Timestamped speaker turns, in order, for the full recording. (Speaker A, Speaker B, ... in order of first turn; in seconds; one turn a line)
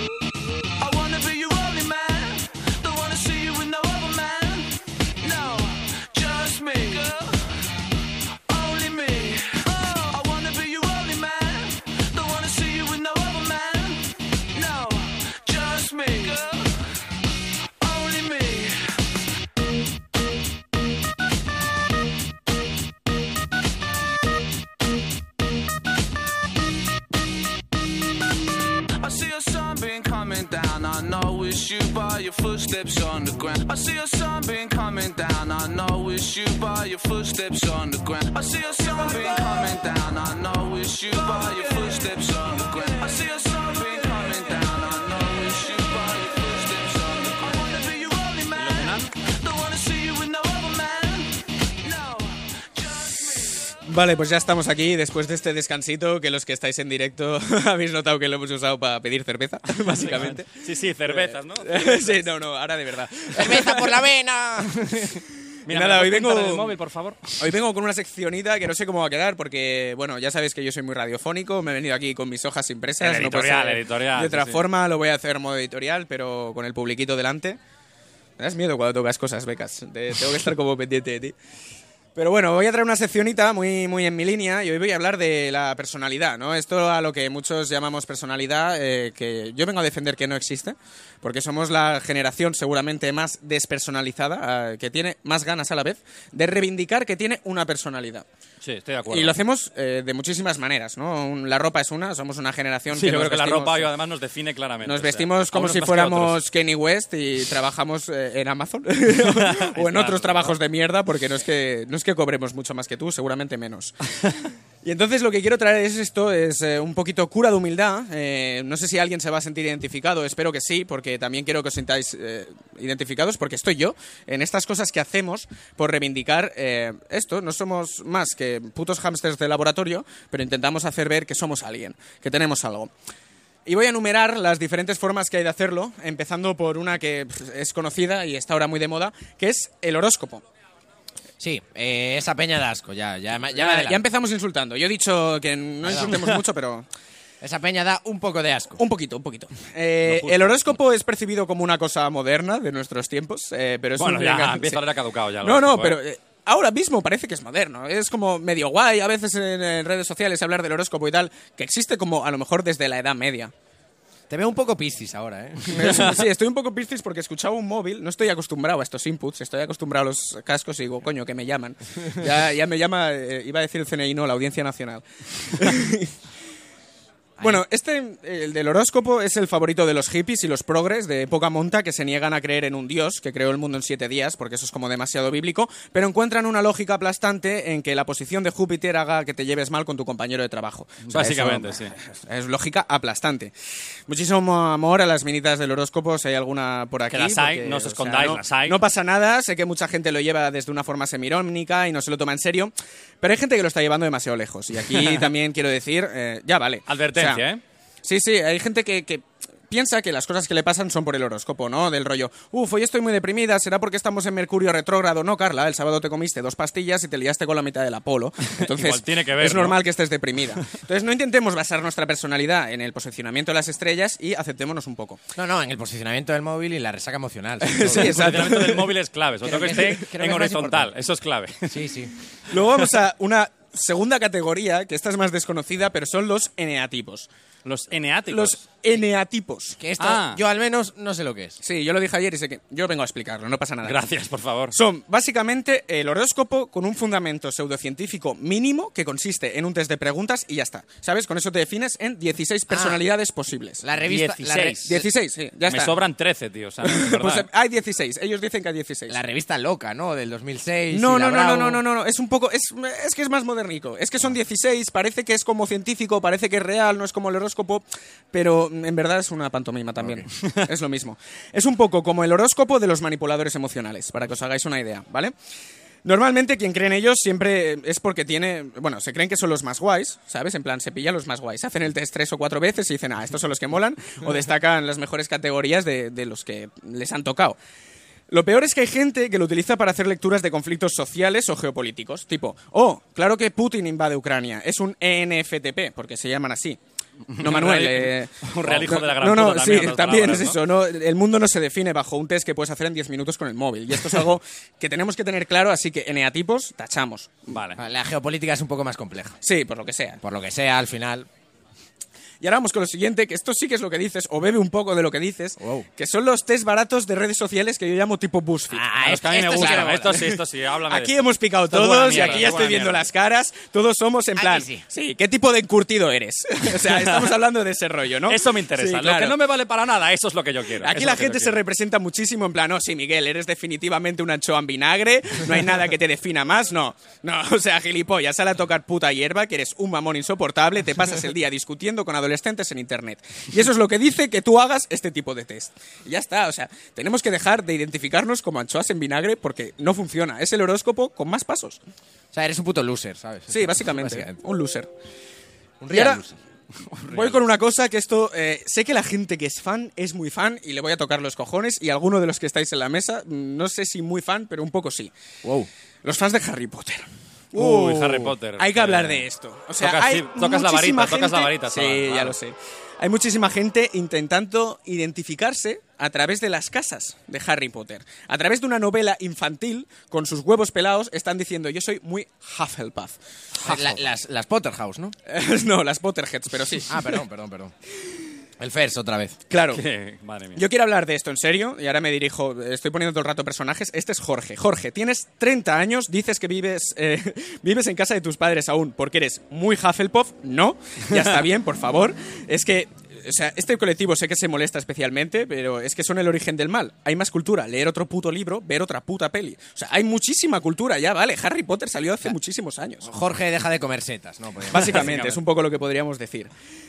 Speaker A: 0.8-7.4
Speaker A: 8.5-16.8
Speaker A: 17.8-18.9
Speaker A: 29.0-53.5
Speaker B: 48.5-49.1
Speaker C: 53.8-64.0
Speaker B: 59.8-62.2
Speaker D: 63.3-65.2
Speaker B: 65.7-67.3
Speaker C: 65.7-66.8
Speaker C: 67.4-77.6
Speaker B: 73.0-74.6
Speaker C: 78.4-81.3
Speaker C: 82.2-98.2
Speaker B: 98.6-99.4
Speaker C: 99.1-103.9
Speaker B: 102.9-106.4
Speaker C: 104.8-114.0
Speaker B: 109.1-110.6
Speaker C: 114.8-132.9
Speaker C: 133.7-140.4
Speaker D: 141.4-144.0
Speaker C: 143.5-146.8
Speaker D: 145.9-146.1
Speaker D: 147.4-148.8
Speaker C: 148.8-154.8
Speaker B: 150.1-150.6
Speaker B: 154.0-156.0
Speaker C: 155.4-163.5
Speaker D: 164.3-166.2
Speaker C: 165.7-176.1
Speaker C: 177.4-193.5
Speaker B: 191.1-191.9
Speaker C: 194.1-207.4
Speaker B: 197.1-198.8
Speaker B: 206.9-207.6
Speaker C: 208.0-225.2
Speaker B: 218.5-219.8
Speaker D: 225.3-228.3
Speaker C: 227.6-228.9
Speaker B: 227.8-231.8
Speaker D: 229.4-230.9
Speaker D: 231.7-232.1
Speaker C: 232.5-237.3
Speaker B: 232.5-232.8
Speaker B: 237.6-238.6
Speaker C: 238.3-239.8
Speaker D: 239.8-241.6
Speaker B: 240.0-240.4
Speaker C: 241.6-244.0
Speaker B: 243.8-244.8
Speaker C: 244.7-253.8
Speaker D: 252.7-253.0
Speaker D: 253.8-255.0
Speaker B: 254.0-255.1
Speaker C: 254.9-256.0
Speaker B: 255.7-257.5
Speaker C: 256.8-259.1
Speaker D: 259.1-261.8
Speaker C: 260.9-275.3
Speaker B: 270.3-270.6
Speaker C: 276.0-287.6
Speaker C: 288.3-296.8
Speaker B: 297.3-300.6
Speaker C: 297.4-307.4
Speaker B: 307.5-307.8
Speaker D: 307.8-309.4
Speaker C: 309.4-310.2
Speaker D: 310.2-311.3
Speaker C: 312.4-318.8
Speaker D: 315.6-315.9
Speaker D: 318.7-320.2
Speaker B: 319.0-323.1
Speaker C: 319.5-320.4
Speaker C: 320.9-329.4
Speaker D: 322.1-322.5
Speaker D: 324.4-324.8
Speaker B: 326.9-327.2
Speaker B: 328.3-331.6
Speaker C: 330.8-351.8
Speaker D: 352.3-354.3
Speaker C: 353.5-354.9
Speaker D: 355.8-356.3
Speaker C: 355.9-356.2
Speaker B: 356.9-357.4
Speaker C: 357.1-365.1
Speaker C: 366.0-383.2
Speaker B: 367.5-369.2
Speaker B: 369.8-372.4
Speaker D: 383.6-385.1
Speaker C: 385.3-387.2
Speaker D: 386.9-387.7
Speaker D: 388.6-389.4
Speaker C: 389.5-389.8
Speaker B: 389.6-390.6
Speaker C: 390.5-413.1
Speaker D: 413.0-415.1
Speaker C: 414.7-416.5
Speaker B: 414.8-415.4